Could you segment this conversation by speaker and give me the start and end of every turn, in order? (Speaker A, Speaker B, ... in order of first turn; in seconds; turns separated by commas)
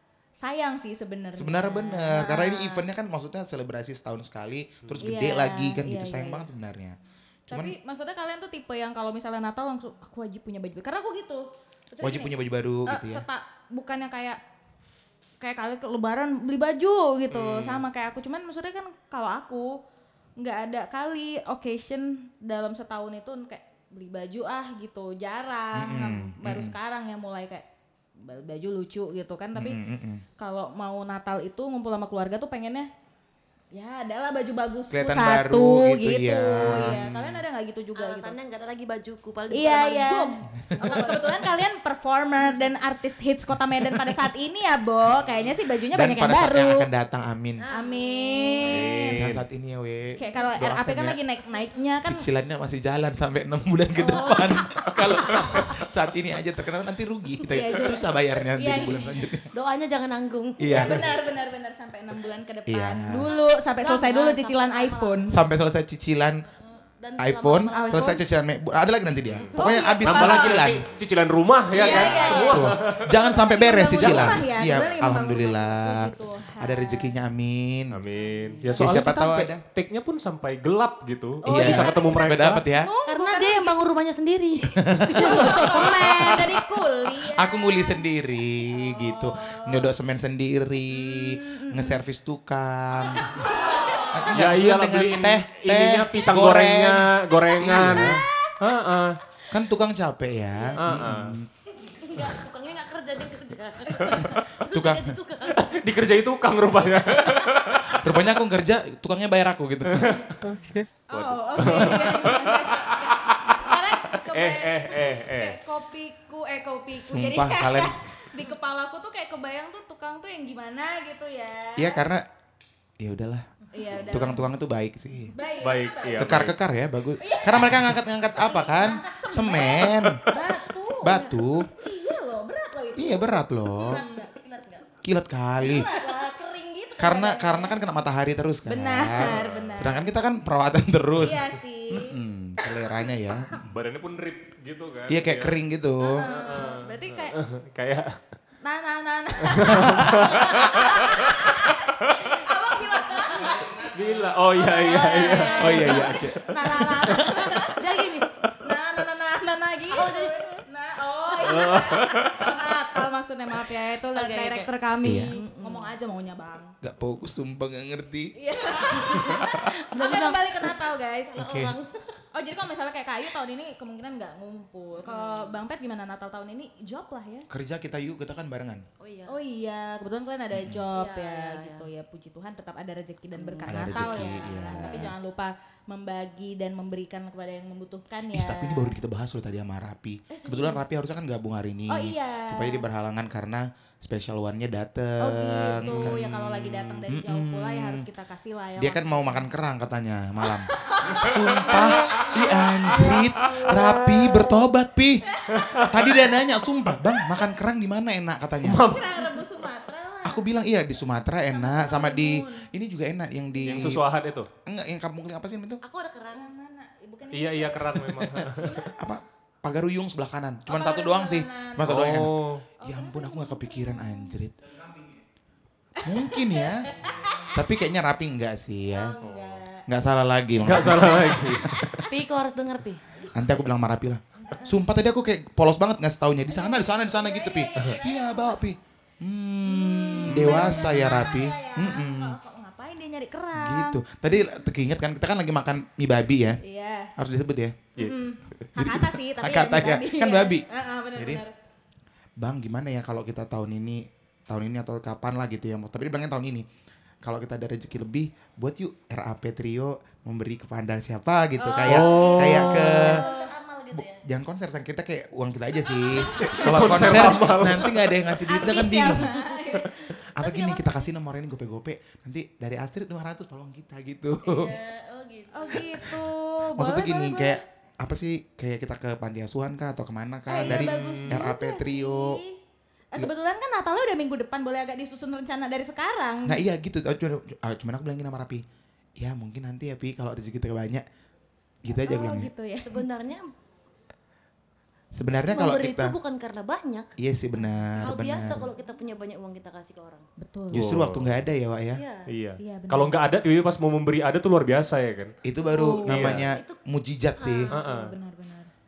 Speaker A: 0.4-2.9, Speaker B: 1.4-7.0, Speaker A: 5.0-6.5, Speaker B: 7.5-7.8, Speaker A: 7.5-12.3, Speaker B: 12.0-13.2, Speaker A: 12.8-14.4, Speaker A: 15.4-19.8, Speaker C: 17.3-17.9, Speaker A: 20.4-27.6, Speaker B: 25.7-26.8, Speaker A: 28.2-29.8, Speaker B: 29.5-30.2, Speaker A: 30.4-32.9, Speaker A: 33.7-38.4, Speaker B: 34.9-37.4, Speaker D: 38.0-41.5, Speaker A: 39.5-46.9, Speaker D: 42.4-42.7, Speaker B: 45.9-47.6, Speaker D: 47.6-48.9, Speaker A: 47.7-49.2, Speaker C: 48.6-49.4, Speaker B: 49.1-51.2, Speaker A: 50.2-52.2, Speaker B: 52.0-59.5, Speaker D: 54.0-55.8, Speaker A: 57.5-59.2, Speaker D: 58.5-61.1, Speaker B: 60.6-61.1, Speaker A: 60.7-65.4, Speaker B: 62.7-63.3, Speaker D: 63.2-65.3, Speaker B: 65.3-66.4, Speaker D: 66.6-68.2, Speaker B: 67.2-70.9, Speaker A: 67.7-68.2, Speaker C: 69.3-73.1, Speaker A: 69.5-70.6, Speaker B: 71.7-78.0, Speaker A: 71.8-77.2, Speaker D: 71.8-72.6, Speaker C: 74.0-74.4, Speaker C: 77.9-82.6, Speaker A: 78.2-78.7, Speaker B: 78.7-79.6, Speaker A: 81.4-83.8, Speaker B: 81.4-82.9, Speaker D: 83.0-86.5, Speaker B: 84.7-85.9, Speaker A: 85.1-88.0, Speaker C: 85.9-86.5, Speaker B: 87.3-93.5, Speaker D: 88.7-89.9, Speaker A: 90.9-92.0, Speaker A: 93.2-94.1, Speaker D: 93.4-94.1, Speaker B: 94.1-98.3, Speaker C: 94.3-99.2, Speaker B: 99.5-101.5, Speaker C: 100.8-101.4, Speaker D: 101.9-105.7, Speaker B: 104.6-105.2, Speaker C: 105.5-108.1, Speaker B: 107.9-110.2, Speaker C: 109.9-110.6, Speaker A: 111.1-122.1, Speaker C: 111.1-113.7, Speaker D: 111.6-112.0, Speaker C: 114.3-115.6, Speaker B: 116.9-117.9, Speaker B: 121.8-122.2, Speaker B: 123.0-125.3, Speaker A: 123.7-124.5, Speaker A: 125.3-126.5, Speaker C: 125.6-126.5, Speaker B: 126.1-130.3, Speaker A: 127.2-134.2, Speaker B: 131.0-131.7, Speaker B: 132.9-134.0, Speaker D: 133.7-134.9, Speaker B: 135.0-135.9, Speaker A: 135.6-137.8, Speaker D: 135.7-136.5, Speaker B: 137.0-143.7, Speaker A: 138.7-140.0, Speaker C: 139.2-139.8, Speaker A: 141.2-142.2, Speaker C: 143.7-145.6, Speaker B: 145.1-146.3, Speaker A: 146.0-147.4, Speaker C: 146.2-148.2, Speaker A: 148.6-153.7, Speaker C: 149.4-151.5, Speaker B: 149.7-150.3, Speaker D: 153.2-153.5, Speaker C: 153.5-156.0, Speaker A: 154.5-166.7, Speaker D: 154.6-156.2, Speaker B: 155.6-157.6, Speaker D: 157.3-158.3, Speaker D: 159.9-160.6, Speaker D: 161.4-162.1, Speaker C: 161.4-162.5, Speaker D: 164.1-165.9, Speaker B: 165.0-165.4, Speaker B: 166.8-168.3, Speaker A: 168.3-171.4, Speaker D: 168.7-172.2, Speaker B: 171.4-171.7, Speaker A: 172.3-177.5, Speaker D: 175.0-175.6, Speaker B: 177.5-178.8, Speaker D: 179.0-179.4, Speaker A: 179.3-189.0, Speaker B: 180.5-180.8, Speaker D: 180.9-181.9, Speaker D: 183.3-185.1, Speaker B: 183.7-185.1, Speaker B: 188.3-198.1, Speaker A: 190.3-190.9, Speaker A: 191.9-192.9, Speaker A: 195.2-199.4, Speaker C: 195.8-196.8, Speaker B: 198.8-208.8, Speaker A: 200.7-203.2, Speaker A: 205.3-206.2, Speaker C: 205.5-206.0, Speaker C: 208.6-209.5, Speaker A: 208.8-210.4, Speaker B: 210.2-214.0, Speaker A: 211.5-212.7, Speaker A: 213.6-213.9, Speaker C: 213.6-214.5, Speaker B: 214.6-215.8, Speaker D: 215.8-216.5, Speaker A: 216.3-219.2, Speaker C: 217.3-218.8, Speaker B: 218.9-225.0, Speaker A: 220.7-222.1, Speaker C: 221.8-222.6, Speaker A: 222.8-224.3, Speaker B: 226.0-229.1, Speaker A: 226.0-227.6, Speaker A: 228.9-229.9, Speaker C: 229.2-229.6, Speaker B: 229.9-232.0, Speaker C: 230.6-231.7, Speaker A: 230.9-231.7, Speaker D: 231.9-233.0, Speaker B: 233.3-242.4, Speaker A: 234.4-234.8, Speaker A: 236.5-238.6, Speaker A: 239.6-244.0, Speaker C: 240.2-241.3, Speaker B: 243.5-246.6, Speaker A: 246.6-247.1, Speaker B: 247.2-247.9, Speaker A: 248.0-251.5, Speaker B: 248.7-251.4, Speaker B: 252.4-256.6, Speaker B: 257.2-263.2, Speaker A: 261.6-263.5, Speaker C: 261.9-263.1, Speaker D: 262.0-264.2, Speaker B: 263.9-269.4, Speaker A: 266.2-267.5, Speaker C: 266.5-268.1, Speaker A: 268.4-270.7, Speaker D: 268.5-270.9, Speaker B: 270.1-274.8, Speaker D: 274.4-276.0, Speaker A: 275.5-277.6, Speaker B: 275.7-282.4, Speaker A: 280.5-282.6, Speaker C: 280.6-281.5, Speaker A: 283.1-286.6, Speaker B: 286.4-288.6, Speaker B: 289.2-291.0, Speaker B: 291.8-292.5, Speaker A: 292.0-293.0, Speaker D: 292.8-293.5, Speaker B: 295.1-296.1, Speaker D: 295.4-297.1, Speaker B: 297.2-298.7, Speaker D: 298.0-300.2, Speaker A: 300.4-300.9, Speaker B: 300.7-302.0, Speaker C: 300.7-301.4, Speaker D: 301.9-302.3, Speaker C: 302.3-305.3, Speaker A: 302.6-303.2, Speaker B: 305.4-307.7, Speaker A: 305.6-306.4, Speaker C: 306.1-306.5, Speaker D: 306.4-306.8, Speaker D: 307.4-307.7, Speaker A: 307.6-308.7, Speaker C: 307.7-308.1